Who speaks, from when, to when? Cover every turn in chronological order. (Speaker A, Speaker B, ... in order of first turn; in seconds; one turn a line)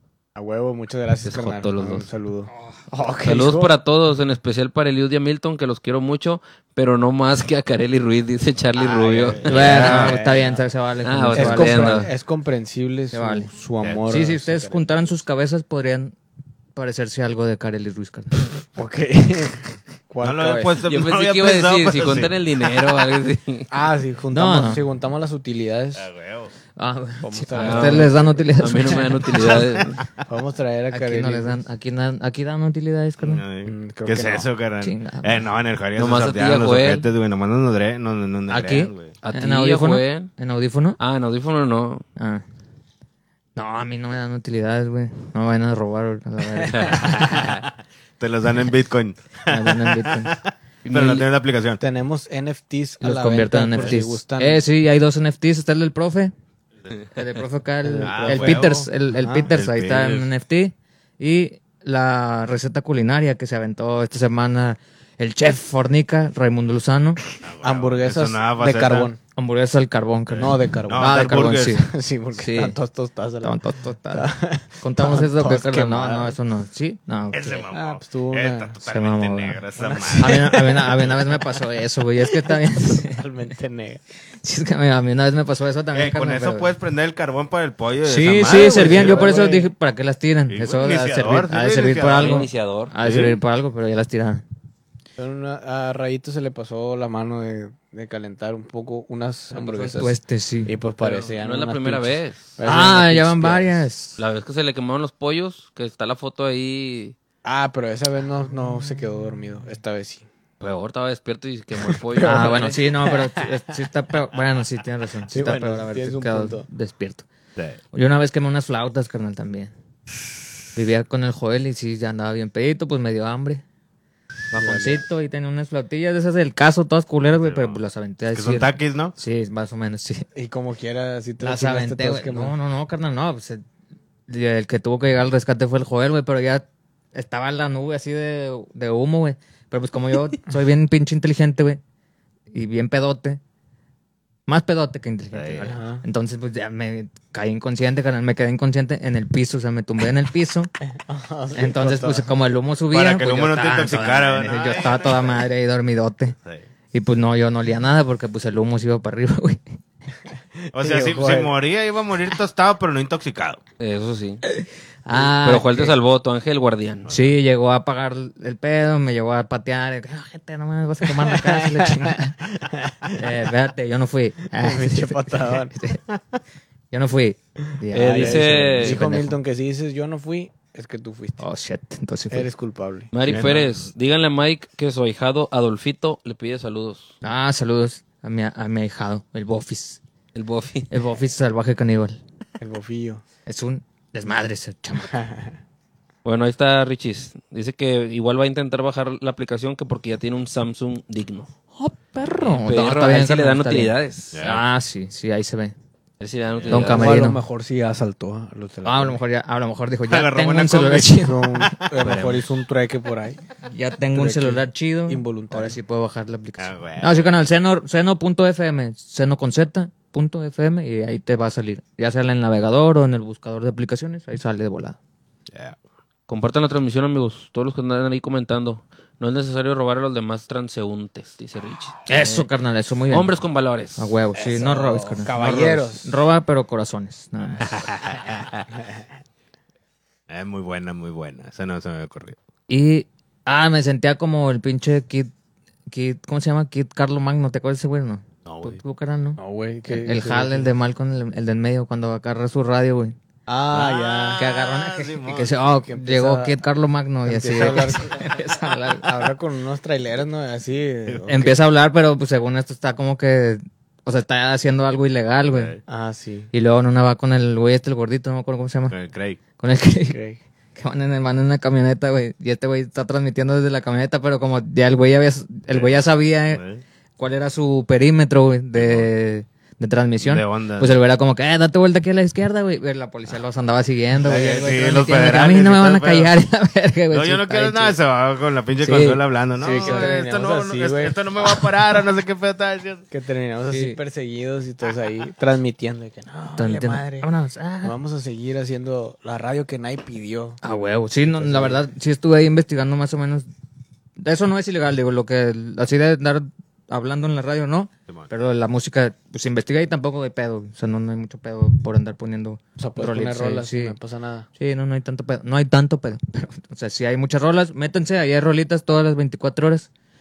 Speaker A: 0.3-3.7
Speaker B: 1.2-2.1
Speaker B: 3.2-10.2
Speaker A: 8.8-10.6
Speaker C: 9.5-12.1
Speaker B: 11.0-12.1
Speaker A: 11.3-14.9
Speaker C: 13.1-13.5
Speaker C: 14.1-16.1
Speaker C: 16.7-18.4
Speaker A: 18.7-20.8
Speaker D: 20.2-22.6
Speaker B: 20.8-23.7
Speaker A: 23.7-26.1
Speaker C: 24.3-24.8
Speaker D: 25.9-26.5
Speaker C: 26.8-29.6
Speaker A: 27.2-28.4
Speaker B: 27.6-30.0
Speaker D: 29.5-30.2
Speaker A: 30.3-31.6
Speaker C: 30.9-33.4
Speaker D: 33.2-39.1
Speaker A: 33.6-34.5
Speaker C: 34.8-35.5
Speaker B: 36.0-37.1
Speaker C: 38.5-41.0
Speaker B: 39.2-40.3
Speaker B: 41.0-42.0
Speaker C: 42.2-42.4
Speaker C: 43.5-47.5
Speaker A: 46.5-47.2
Speaker B: 46.7-47.3
Speaker D: 47.0-47.7
Speaker D: 48.2-51.8
Speaker C: 49.5-50.4
Speaker B: 50.8-51.2
Speaker A: 51.8-54.6
Speaker C: 53.0-56.3
Speaker C: 57.1-67.2
Speaker A: 57.8-59.5
Speaker D: 58.0-58.9
Speaker D: 59.5-60.3
Speaker D: 67.4-69.1
Speaker A: 67.6-69.2
Speaker C: 69.3-72.8
Speaker D: 70.3-71.8
Speaker A: 70.4-73.6
Speaker C: 73.4-77.7
Speaker A: 74.1-76.4
Speaker D: 77.3-81.2
Speaker A: 77.7-78.7
Speaker C: 78.8-83.2
Speaker A: 79.8-80.9
Speaker A: 82.5-84.0
Speaker C: 84.4-86.7
Speaker D: 85.9-89.3
Speaker C: 88.0-94.4
Speaker A: 88.5-89.7
Speaker D: 90.5-92.5
Speaker B: 92.1-92.9
Speaker D: 93.0-93.4
Speaker A: 95.2-103.8
Speaker B: 99.6-100.0
Speaker C: 99.9-100.7
Speaker B: 101.0-102.5
Speaker C: 102.6-104.2
Speaker B: 104.2-107.2
Speaker A: 107.4-110.3
Speaker B: 110.6-112.8
Speaker A: 111.9-113.6
Speaker C: 112.2-117.2
Speaker A: 115.3-116.7
Speaker C: 117.9-119.7
Speaker C: 120.7-123.6
Speaker C: 124.5-130.3
Speaker A: 124.5-125.0
Speaker D: 127.4-127.8
Speaker D: 128.3-129.1
Speaker A: 130.3-132.5
Speaker C: 131.4-133.6
Speaker C: 134.3-141.8
Speaker C: 142.5-143.4
Speaker C: 144.5-150.7
Speaker D: 145.3-145.7
Speaker A: 145.6-146.0
Speaker A: 151.1-152.3
Speaker C: 151.5-156.3
Speaker D: 152.9-155.4
Speaker C: 156.9-159.6
Speaker D: 160.7-163.6
Speaker A: 160.7-161.5
Speaker B: 163.8-164.4
Speaker C: 164.4-165.9
Speaker B: 165.1-167.1
Speaker D: 167.1-167.3
Speaker C: 167.1-172.4
Speaker A: 171.1-173.3
Speaker C: 173.1-176.0
Speaker A: 174.5-175.7
Speaker C: 176.9-179.4
Speaker B: 177.9-179.0
Speaker A: 177.9-181.4
Speaker C: 181.4-182.5
Speaker A: 182.3-183.1
Speaker B: 183.1-187.1
Speaker D: 183.2-183.9
Speaker C: 187.2-190.0
Speaker B: 190.3-190.9
Speaker C: 190.9-192.2
Speaker A: 192.6-193.2
Speaker C: 193.4-195.1
Speaker A: 195.0-195.5
Speaker B: 196.2-201.5
Speaker C: 201.8-205.7
Speaker B: 202.4-204.4
Speaker D: 204.3-204.6
Speaker B: 206.2-207.2
Speaker D: 206.5-206.9
Speaker C: 206.7-207.4
Speaker A: 206.7-209.2
Speaker C: 208.8-211.8
Speaker D: 210.1-212.4
Speaker A: 211.2-213.4
Speaker C: 213.7-225.0
Speaker A: 214.1-215.8
Speaker D: 216.6-217.3
Speaker D: 225.5-225.8
Speaker B: 226.3-232.5
Speaker C: 232.1-233.3
Speaker B: 233.1-234.1
Speaker C: 234.0-237.8
Speaker A: 234.3-236.1
Speaker D: 237.6-238.6
Speaker D: 240.3-242.4
Speaker C: 242.7-245.3
Speaker C: 245.9-253.1
Speaker D: 248.4-248.8
Speaker A: 249.4-250.7
Speaker A: 253.5-254.4
Speaker D: 253.7-255.6
Speaker C: 254.4-259.2
Speaker A: 255.9-256.6
Speaker A: 257.3-258.4
Speaker A: 259.0-261.6
Speaker C: 261.2-265.8
Speaker D: 265.5-265.8
Speaker A: 265.9-266.5
Speaker C: 266.5-268.9
Speaker D: 268.9-269.4
Speaker C: 269.6-270.2
Speaker A: 270.1-270.4
Speaker C: 270.7-276.6
Speaker D: 275.7-276.8
Speaker C: 277.2-288.0
Speaker D: 278.8-279.1
Speaker D: 280.2-280.9
Speaker D: 284.2-286.3
Speaker D: 287.1-293.0
Speaker C: 288.8-290.2
Speaker A: 289.6-291.1
Speaker A: 293.1-297.3
Speaker C: 293.7-294.0
Speaker C: 296.6-297.9
Speaker A: 297.8-300.6
Speaker C: 300.6-303.5
Speaker A: 301.4-301.8
Speaker C: 304.2-313.9
Speaker A: 312.8-314.5
Speaker C: 314.6-319.9